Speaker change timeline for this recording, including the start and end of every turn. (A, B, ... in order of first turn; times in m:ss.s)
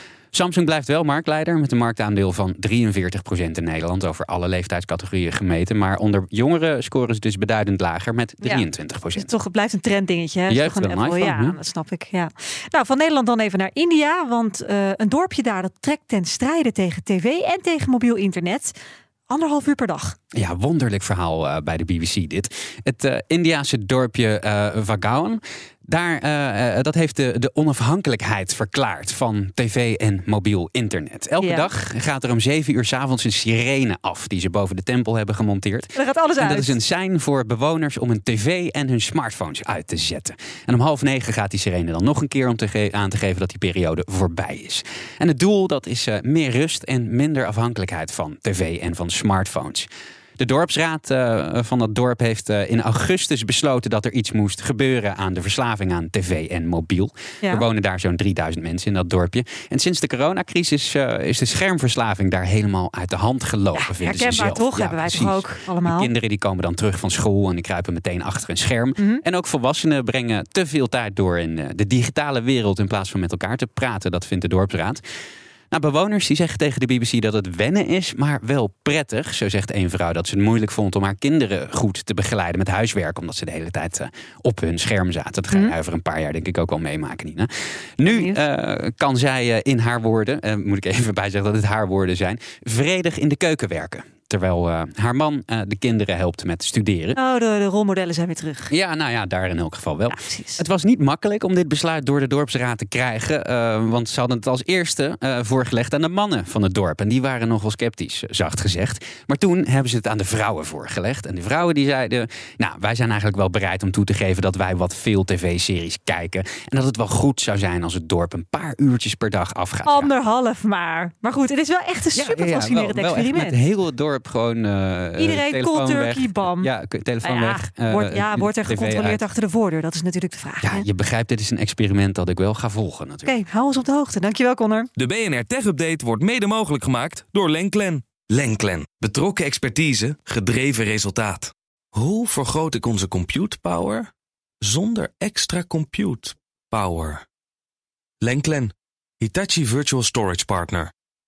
0:00.3-0:09.3 A
0:09.2-0:18.8 B
0:10.5-0:11.6 A
0:19.3-0:20.2 B
0:20.3-0:49.9 A
0:31.4-0:31.7 B
0:36.0-0:36.8 B
0:50.4-1:15.0 A
1:03.8-1:06.1 B
1:09.0-1:09.2 B
1:15.7-1:37.2 A
1:28.1-1:28.4 B
1:37.2-1:38.7 B
1:38.7-2:00.1 A
1:40.1-1:40.6 B
1:59.8-2:03.6 B
2:02.1-2:09.2 A
2:05.2-2:06.7 B
2:07.2-2:10.9 B
2:10.6-2:13.4 A
2:13.2-2:14.9 B
2:15.0-2:24.1 C
2:24.6-2:27.2 C
2:28.2-2:30.9 C